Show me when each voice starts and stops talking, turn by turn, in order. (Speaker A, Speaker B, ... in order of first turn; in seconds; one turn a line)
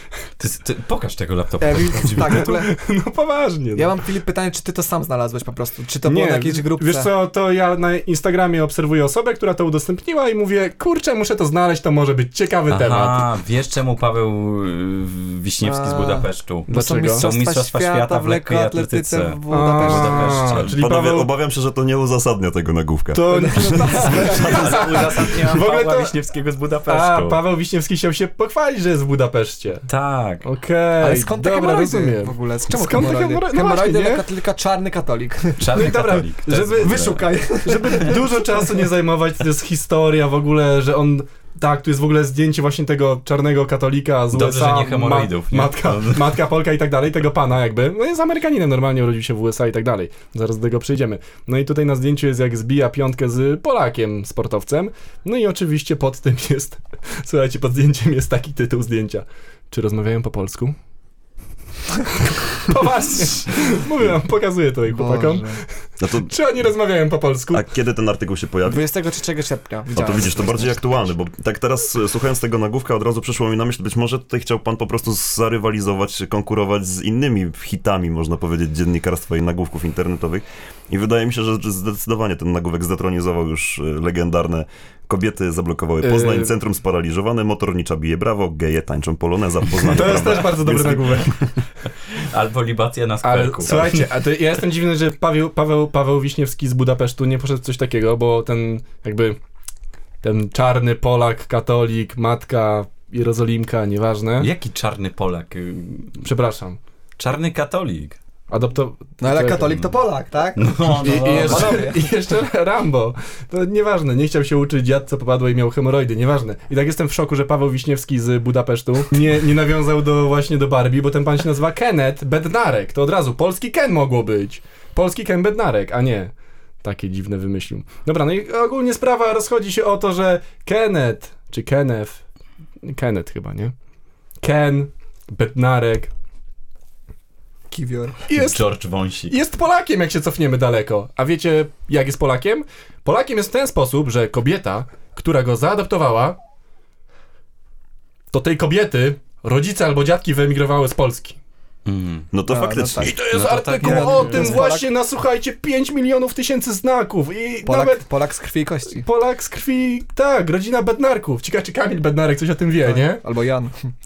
Speaker A: 0.4-2.5
Speaker B: 1.6-2.7
Speaker C: 2.3-4.0
Speaker B: 3.8-7.1
Speaker C: 6.0-13.3
Speaker A: 12.7-20.7
Speaker B: 15.6-20.5
Speaker C: 16.7-17.3
Speaker C: 19.5-21.3
Speaker D: 20.6-23.9
Speaker C: 23.1-26.1
Speaker B: 23.3-25.1
Speaker A: 24.0-27.4
Speaker C: 26.9-29.9
Speaker A: 29.9-30.5
Speaker C: 30.4-34.3
Speaker B: 31.0-36.0
Speaker A: 35.6-37.3
Speaker C: 35.7-60.8
Speaker B: 36.8-38.9
Speaker A: 44.3-46.4
Speaker C: 62.3-67.6
Speaker B: 64.9-65.6
Speaker D: 66.0-66.3
Speaker D: 67.5-68.8
Speaker B: 68.7-70.8
Speaker D: 69.9-91.5
Speaker C: 86.0-86.5
Speaker C: 89.8-91.4
Speaker A: 92.1-94.1
Speaker C: 93.2-99.4
Speaker C: 100.2-104.5
Speaker A: 104.4-106.2
Speaker C: 106.2-106.8
Speaker A: 107.2-108.2
Speaker C: 108.5-109.9
Speaker B: 109.2-112.0
Speaker A: 110.5-112.0
Speaker C: 111.0-126.3
Speaker C: 126.8-132.2
Speaker C: 132.8-133.7
Speaker C: 134.4-136.1
Speaker B: 137.7-138.3
Speaker C: 138.3-138.7
Speaker A: 138.3-139.4
Speaker C: 139.3-146.4
Speaker C: 148.3-151.4
Speaker A: 151.9-152.3
Speaker D: 152.3-153.1
Speaker B: 152.5-153.2
Speaker C: 153.0-158.1
Speaker A: 153.3-154.6
Speaker B: 153.8-154.9
Speaker B: 157.7-159.1
Speaker C: 158.9-163.2
Speaker B: 162.8-163.9